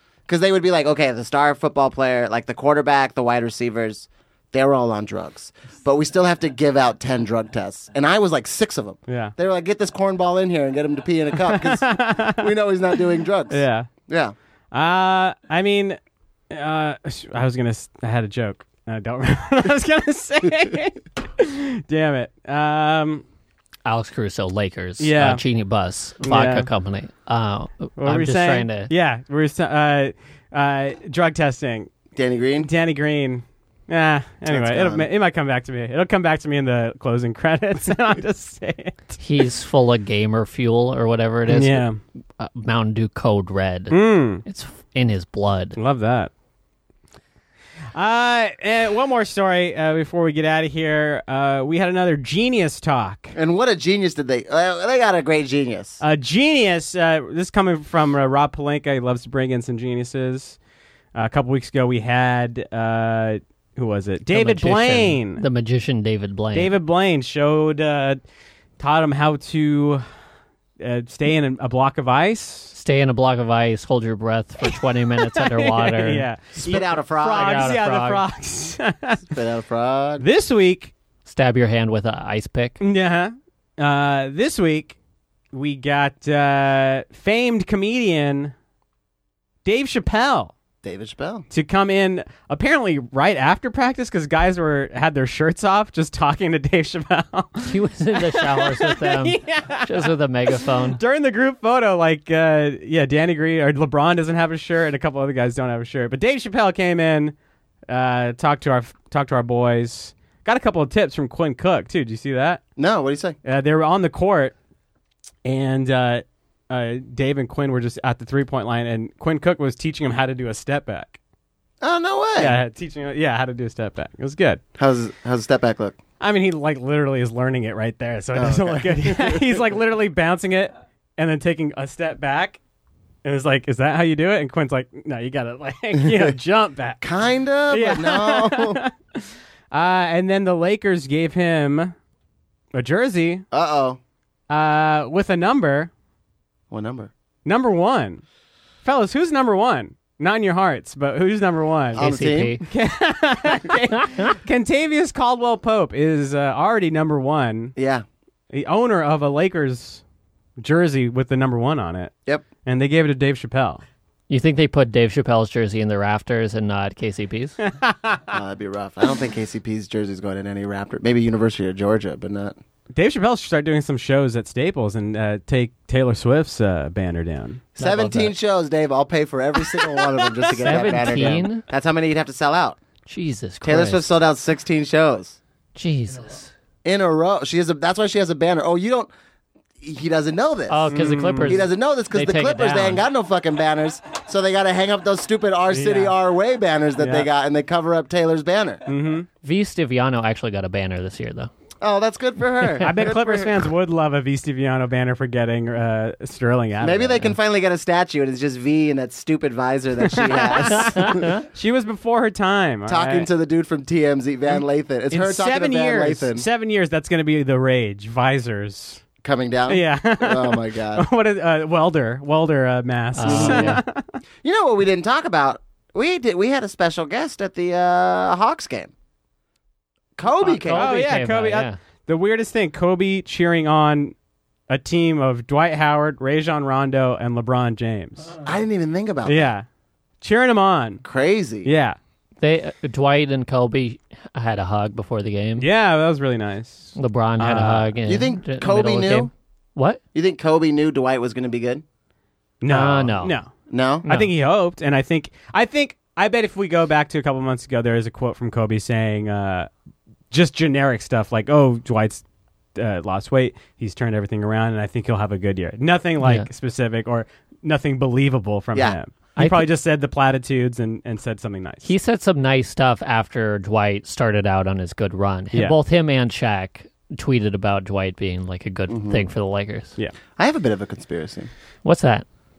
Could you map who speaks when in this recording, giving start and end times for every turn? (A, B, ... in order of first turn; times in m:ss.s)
0:00.3-0:14.3 A
0:09.1-0:09.3 B
0:11.4-0:12.5 B
0:13.5-0:13.9 B
0:14.7-0:16.0 B
0:16.5-0:23.2 B
0:23.8-0:28.9 C
0:25.0-0:25.4 B
0:26.2-0:26.7 B
0:28.0-0:31.9 B
0:32.1-0:32.7 A
0:32.6-0:39.2 B
0:34.5-0:35.1 A
0:39.2-0:41.8 C
0:41.5-0:42.0 B
0:42.4-0:45.8 C
0:43.9-0:44.4 B
0:45.8-0:46.3 B
0:47.9-0:53.3 B
0:53.3-0:56.0 A
0:56.0-1:00.6 B
1:01.1-1:05.4 B
1:04.3-1:06.7 C
1:06.5-1:08.2 B
1:08.8-1:10.0 B
1:10.8-1:12.7 B
1:12.7-1:16.7 C
1:14.6-1:19.2 B
1:16.6-1:17.8 A
1:17.3-1:18.2 C
1:19.2-1:20.2 A
1:20.2-1:20.9 B
1:21.2-1:22.8 C
1:22.8-1:25.0 B
1:25.5-1:28.5 B
1:29.6-1:30.5 B
1:30.8-1:31.4 A
1:31.5-1:47.3 B
1:37.6-1:41.0 C
1:47.9-1:52.6 B
1:52.8-1:53.4 A
1:53.4-1:54.5 B
1:55.4-2:01.2 B
2:01.8-2:02.6 A
2:02.4-2:04.6 B
2:04.8-2:06.0 A
2:06.2-2:12.6 B
2:08.3-2:09.6 A
2:13.2-2:17.0 B
2:16.0-2:16.3 A
2:17.0-2:18.8 A
2:17.7-2:21.9 B
2:22.7-2:23.4 B
2:23.5-2:24.0 A
2:24.5-2:25.9 B
2:26.7-2:27.1 A
2:27.4-2:28.2 B
2:28.8-2:32.0 B
2:31.9-2:32.6 A
2:32.0-2:32.6 C
2:32.6-2:37.8 B
2:37.8-2:38.0 A
2:38.5-2:40.0 B
2:40.6-2:42.1 B
2:42.6-2:43.8 B
2:44.3-2:47.6 C
2:47.6-2:48.2 B
2:48.3-2:52.6 A
2:52.9-2:57.7 B
2:57.8-3:02.8 A
2:57.8-2:58.3 C
2:59.6-3:01.3 B
3:00.6-3:01.6 C
3:03.0-3:04.1 C
3:03.6-3:05.4 A
3:05.7-3:06.5 C
3:06.8-3:09.1 A
3:09.8-3:18.8 A
3:10.7-3:13.0 C
3:10.9-3:11.6 B
3:15.7-3:16.1 B
3:17.0-3:17.3 B
3:18.9-3:19.3 B
3:19.4-3:21.5 C
3:21.8-3:23.7 A
3:22.8-3:27.3 B
3:26.8-3:31.3 A
3:30.0-3:33.3 B
3:30.9-3:31.4 C
3:32.9-3:36.4 A
3:35.1-3:39.0 B
3:39.2-3:41.0 A
3:39.7-3:44.0 B
3:43.2-3:43.8 C
3:43.2-3:43.8 A
3:44.4-3:48.9 A
3:50.2-3:50.9 A
3:50.4-3:51.8 C
3:50.7-3:54.1 B
3:54.7-3:58.3 B
3:58.4-3:59.4 A
3:59.2-3:59.6 B
4:00.2-4:01.0 B
4:01.0-4:01.7 A
4:01.6-4:02.0 B
4:02.4-4:05.6 C
4:05.6-4:07.9 B
4:06.9-4:10.0 C
4:08.0-4:09.3 A
4:10.1-4:11.8 A
4:12.6-4:13.5 B
4:12.7-4:13.4 C
4:13.7-4:14.0 A
4:14.0-4:19.7 B
4:20.3-4:22.2 B
4:22.8-4:31.9 B
4:26.2-4:26.5 C
4:29.4-4:29.7 C
4:31.8-4:39.9 C
4:38.9-4:39.2 A
4:40.4-4:41.5 A
4:41.8-4:42.2 C